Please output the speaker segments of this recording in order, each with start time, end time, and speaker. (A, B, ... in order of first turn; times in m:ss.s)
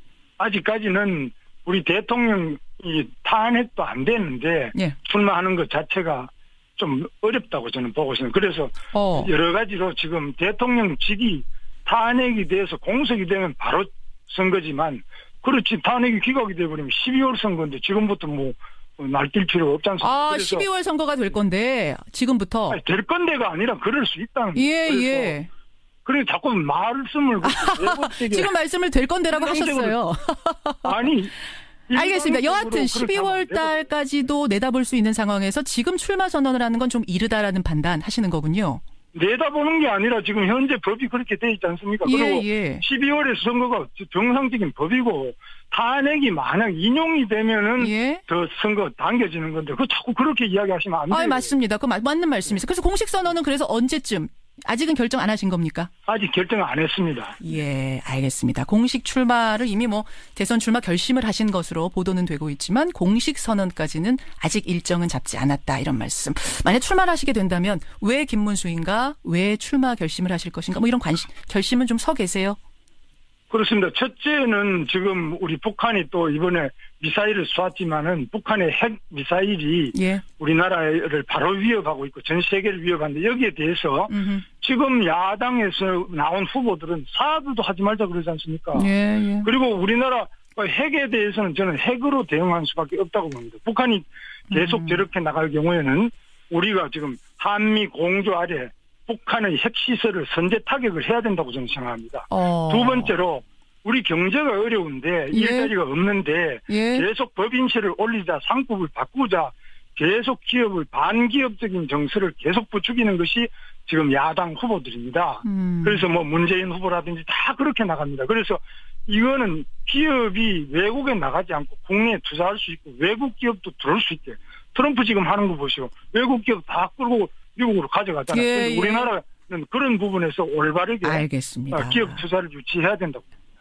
0:00.4-0:20.7 A
0:08.9-0:09.3 B
0:20.0-0:22.8 B
0:22.7-0:25.4 A
0:24.6-0:25.5 B
0:26.1-0:28.5 A
0:27.4-0:31.0 B
0:29.3-0:30.0 A
0:30.8-0:31.3 A
0:31.9-0:33.9 A
0:31.9-0:38.8 B
0:39.1-0:51.5 A
0:42.0-0:42.8 B
0:47.8-0:48.2 B
0:51.1-0:55.9 B
0:56.1-0:57.4 A
0:57.4-1:12.6 B
1:13.5-1:28.9 A
1:19.9-1:20.2 B
1:24.1-1:24.4 B
1:28.7-1:29.5 B
1:29.4-2:13.3 A
1:34.5-1:35.0 B
1:42.3-1:43.1 B
1:45.3-1:45.7 B
1:46.7-1:47.0 B
1:55.4-1:56.0 B
2:08.3-2:09.1 B
2:11.0-2:12.2 B